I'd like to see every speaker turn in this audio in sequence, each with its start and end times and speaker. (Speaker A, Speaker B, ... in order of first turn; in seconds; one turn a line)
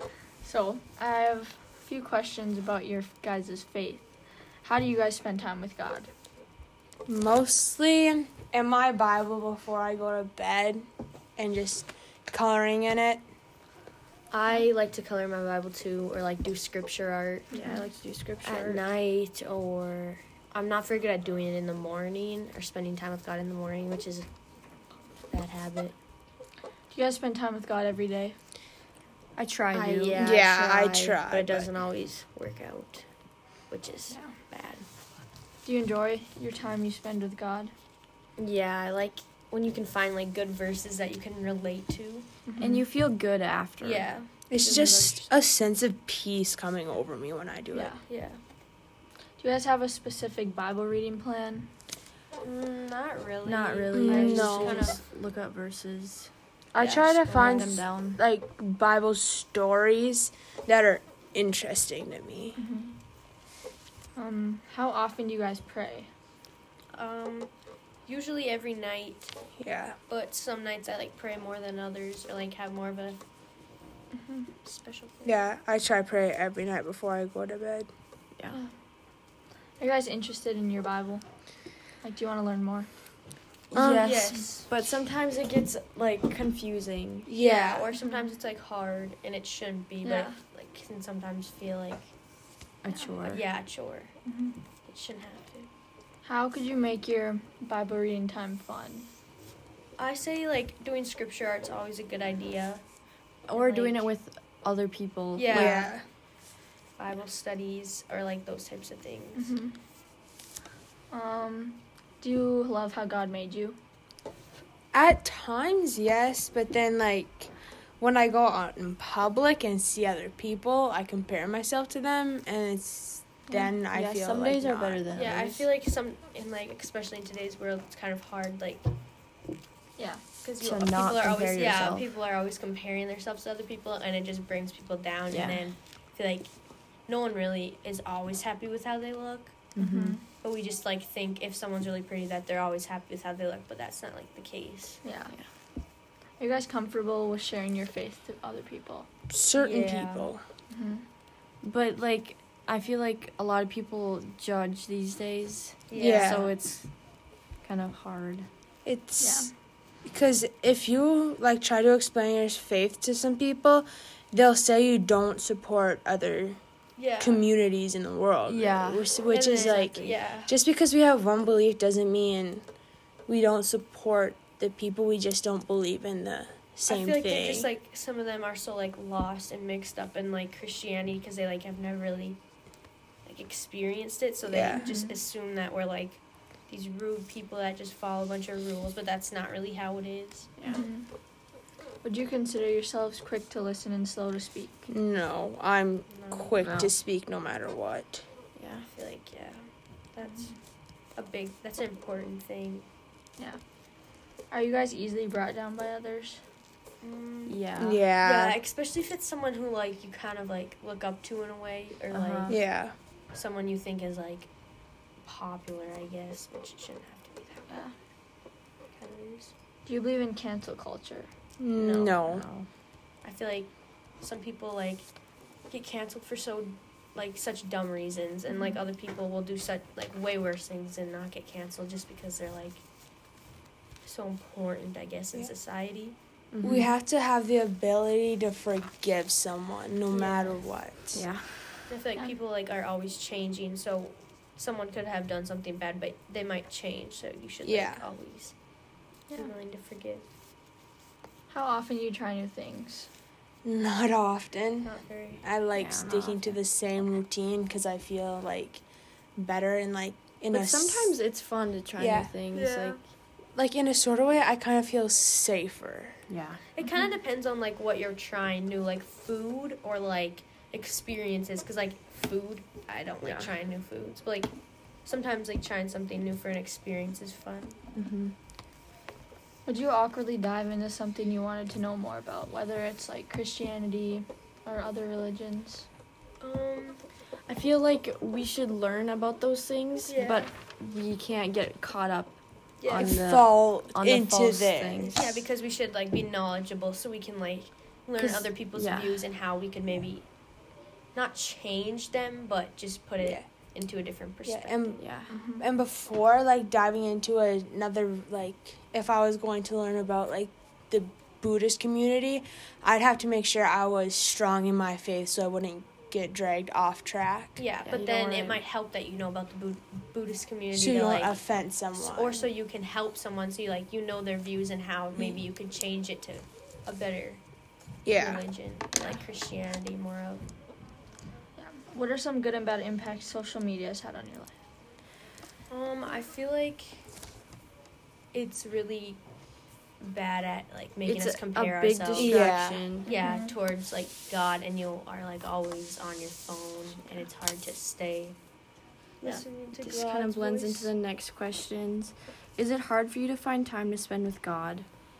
Speaker A: 0.4-4.1
Speaker A: 4.6-6.1
Speaker B: 7.1-10.9
Speaker B: 11.4-13.2
Speaker C: 14.3-17.6
Speaker A: 17.5-17.8
Speaker D: 17.5-18.8
Speaker C: 18.4-24.3
Speaker C: 25.3-25.9
Speaker A: 26.9-28.4
Speaker D: 29.4-31.1
Speaker C: 29.7-33.0
Speaker B: 30.2-31.7
Speaker C: 33.7-34.9
Speaker A: 35.6-37.7
Speaker C: 38.4-42.3
Speaker A: 42.6-42.8
Speaker D: 42.6-45.4
Speaker C: 43.8-44.3
Speaker B: 44.5-48.0
Speaker A: 47.7-48.0
Speaker C: 48.1-48.4
Speaker A: 49.4-51.7
Speaker C: 52.4-55.0
Speaker D: 53.5-56.3
Speaker B: 53.9-55.0
Speaker B: 56.7-62.6
Speaker C: 56.8-57.9
Speaker D: 57.3-58.2
Speaker A: 62.6-63.0
Speaker A: 64.2-66.1
Speaker C: 66.9-67.5
Speaker C: 68.1-69.3
Speaker B: 69.6-70.0
Speaker C: 70.1-73.2
Speaker A: 74.1-74.5
Speaker C: 74.7-75.5
Speaker B: 75.2-77.9
Speaker A: 79.8-81.2
Speaker A: 82.0-82.9
Speaker D: 83.7-87.3
Speaker B: 83.7-84.2
Speaker C: 83.8-84.7
Speaker A: 84.2-84.5
Speaker B: 87.3-87.9
Speaker C: 87.4-92.0
Speaker A: 88.0-88.3
Speaker A: 90.0-90.4
Speaker D: 92.8-93.4
Speaker C: 93.2-94.1
Speaker A: 94.2-94.6
Speaker C: 94.8-95.7
Speaker A: 96.2-99.1
Speaker C: 100.0-102.8
Speaker D: 103.5-105.9
Speaker C: 103.5-104.0
Speaker C: 105.4-105.9
Speaker B: 105.5-106.0
Speaker C: 107.0-109.5
Speaker A: 109.3-109.8
Speaker A: 111.1-113.8
Speaker B: 114.9-125.0
Speaker D: 123.9-125.7
Speaker C: 125.2-128.9
Speaker A: 130.0-130.2
Speaker C: 130.4-136.5
Speaker D: 130.6-132.0
Speaker D: 135.3-135.6
Speaker C: 137.1-139.7
Speaker D: 139.8-140.2
Speaker A: 139.8-140.2
Speaker C: 140.4-145.0
Speaker A: 145.0-145.3
Speaker A: 146.4-149.1
Speaker B: 149.3-150.4
Speaker C: 149.6-150.3
Speaker A: 150.7-151.0
Speaker D: 151.6-156.9
Speaker C: 155.9-156.4
Speaker B: 156.0-156.5
Speaker D: 157.6-158.5
Speaker B: 158.8-159.5
Speaker A: 159.2-159.5
Speaker B: 160.1-166.6
Speaker C: 167.0-167.4
Speaker B: 167.2-172.6
Speaker D: 168.5-170.1
Speaker C: 169.3-170.5
Speaker B: 173.3-177.7
Speaker C: 176.9-182.4
Speaker C: 183.2-190.5
Speaker B: 184.5-184.9
Speaker A: 184.8-185.1
Speaker D: 190.6-190.8
Speaker A: 190.7-191.1
Speaker A: 192.0-194.9
Speaker B: 194.9-198.2
Speaker C: 196.1-196.6
Speaker D: 196.6-196.9
Speaker D: 198.6-198.9
Speaker C: 198.9-200.6
Speaker C: 201.2-202.9
Speaker A: 204.5-206.4
Speaker C: 207.0-207.6
Speaker D: 207.5-208.0
Speaker B: 207.8-208.6
Speaker C: 208.2-212.6
Speaker D: 212.1-212.6
Speaker B: 212.5-212.9
Speaker C: 213.3-214.5
Speaker C: 215.2-217.7
Speaker C: 218.9-219.5
Speaker A: 219.9-221.3
Speaker B: 221.6-222.4
Speaker C: 221.8-222.2
Speaker D: 222.2-222.7
Speaker C: 223.2-223.7
Speaker C: 224.2-225.1
Speaker C: 225.7-232.8
Speaker A: 228.5-228.8
Speaker C: 234.1-236.2
Speaker D: 236.5-236.9
Speaker B: 236.6-241.2
Speaker C: 240.1-240.6
Speaker D: 241.1-241.9
Speaker C: 241.9-248.5
Speaker B: 247.6-248.0
Speaker C: 249.3-250.2
Speaker A: 251.5-253.1
Speaker B: 253.6-254.9
Speaker C: 254.8-255.4
Speaker B: 255.4-258.8
Speaker D: 255.7-256.6
Speaker B: 259.4-261.1
Speaker D: 260.5-263.0
Speaker B: 262.0-262.3
Speaker C: 262.5-263.0
Speaker B: 263.6-266.2
Speaker D: 266.3-266.6
Speaker C: 266.7-274.5
Speaker A: 266.8-267.1
Speaker D: 273.2-273.5
Speaker C: 275.1-277.8
Speaker D: 277.9-278.3
Speaker A: 279.7-285.9
Speaker C: 286.4-287.0
Speaker D: 287.5-295.2
Speaker C: 290.1-290.5
Speaker C: 292.8-293.2
Speaker B: 293.0-295.4
Speaker C: 295.1-300.2
Speaker D: 298.2-299.2
Speaker C: 301.1-305.0
Speaker B: 304.5-305.0
Speaker D: 305.0-305.4
Speaker A: 305.3-305.6
Speaker B: 305.6-317.6
Speaker C: 317.6-321.4
Speaker D: 317.9-318.6
Speaker B: 320.7-322.5
Speaker C: 322.0-327.4
Speaker B: 328.1-328.4
Speaker C: 328.1-330.4
Speaker A: 331.6-334.5
Speaker C: 335.7-337.1
Speaker C: 338.3-339.2
Speaker C: 340.0-342.5
Speaker D: 341.1-343.1
Speaker B: 342.1-342.9
Speaker C: 343.0-348.4
Speaker A: 343.1-343.5
Speaker C: 349.2-350.9
Speaker D: 349.2-354.9